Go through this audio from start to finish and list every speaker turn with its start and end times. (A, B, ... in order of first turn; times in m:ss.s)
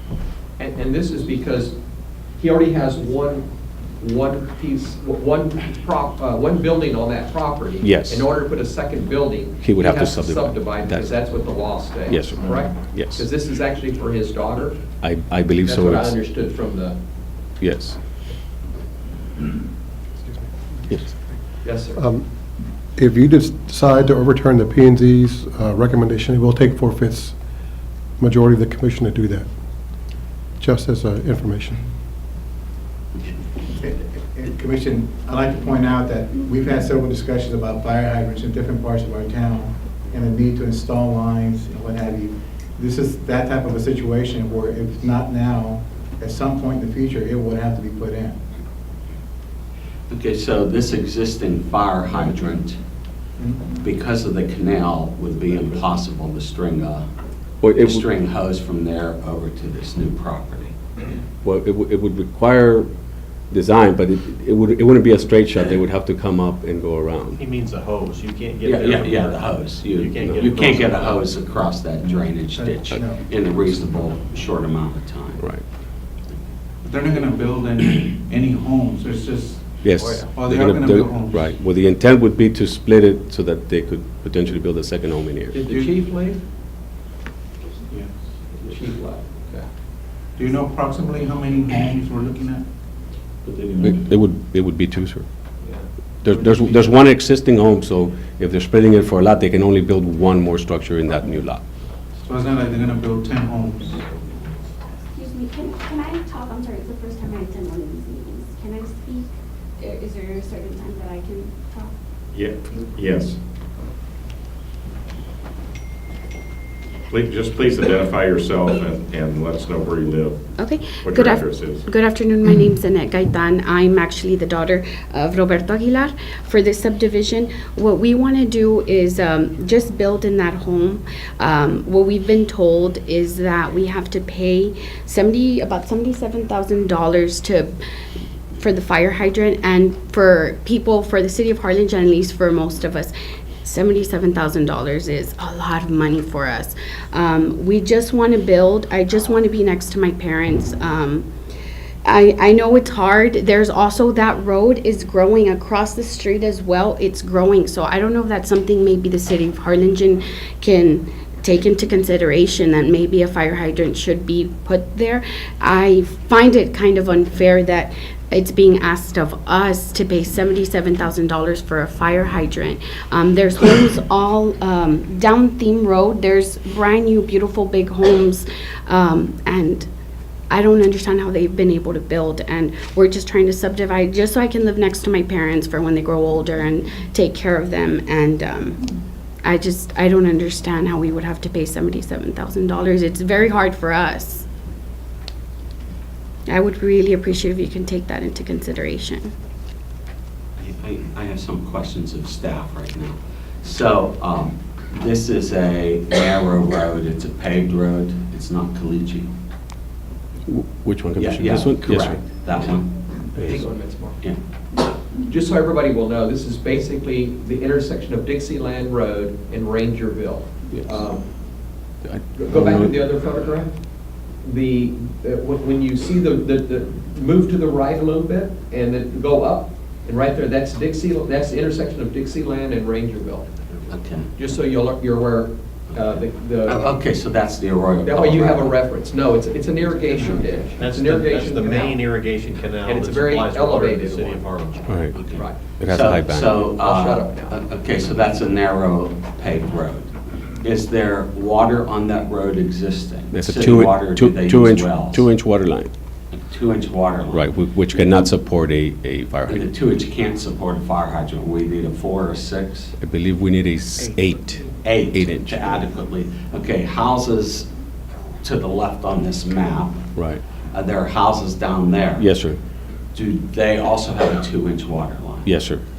0:00.6-0:14.8 A
0:07.8-0:08.3 B
0:09.6-0:11.4 B
0:12.0-0:13.2 B
0:15.0-0:16.2 B
0:15.6-0:17.0 A
0:17.6-0:18.0 B
0:21.0-0:21.3 C
0:21.6-0:22.0 A
0:22.0-0:22.2 D
0:23.0-0:27.3 D
0:28.2-0:29.5 D
0:30.6-0:31.8 D
0:33.6-0:48.4 C
0:50.1-0:52.8 E
0:53.4-0:53.7 C
0:53.8-0:57.1 E
0:57.6-0:58.1 B
0:57.8-1:00.8 E
1:01.4-1:02.9 B
1:03.5-1:07.4 B
1:07.4-1:11.3 F
1:08.6-1:15.4 E
1:10.2-1:10.5 B
1:12.0-1:13.3 C
1:16.8-1:21.6 G
1:19.8-1:25.6 B
1:25.5-1:26.4 A
1:25.7-1:25.9 G
1:28.6-1:29.7 A
1:30.4-1:32.6 G
1:33.8-1:35.3 B
1:36.2-1:41.6 B
1:42.2-1:44.1 G
1:45.1-1:51.9 H
1:52.3-1:53.4 I
1:57.1-2:00.4 I
2:00.6-2:17.7 H
2:01.0-2:01.8 I
2:18.6-2:31.3 H
2:32.0-2:59.9 H
3:00.5-3:08.9 H
3:09.4-3:14.5 H
3:16.5-3:19.3 H
3:20.6-3:29.3 E
3:30.5-3:32.2 B
3:31.2-3:32.9 E
3:33.2-3:34.2 A
3:33.4-3:33.6 B
3:35.2-3:41.3 A
3:42.0-3:43.0 B
3:42.4-3:53.5 A
3:53.6-3:53.9 F
3:53.9-3:54.3 E
3:54.4-3:56.8 A
3:56.7-3:58.8 E
3:58.0-4:02.0 A
4:00.7-4:05.1 F
4:02.8-4:04.4 A
4:04.9-4:05.2 B
4:05.2-4:15.3 E
4:05.8-4:06.6 B
4:06.4-4:07.5 A
4:13.3-4:15.9 B
4:16.3-4:17.5 E
4:17.3-4:19.6 B
4:19.5-4:23.0 E
4:23.0-4:25.5 B
4:24.8-4:27.7 E
4:28.4-4:30.0 E
4:30.2-4:30.4 B
4:30.7-4:32.3 E
4:32.2-4:32.6 B
4:33.1-4:35.5 E
4:35.4-4:35.8 B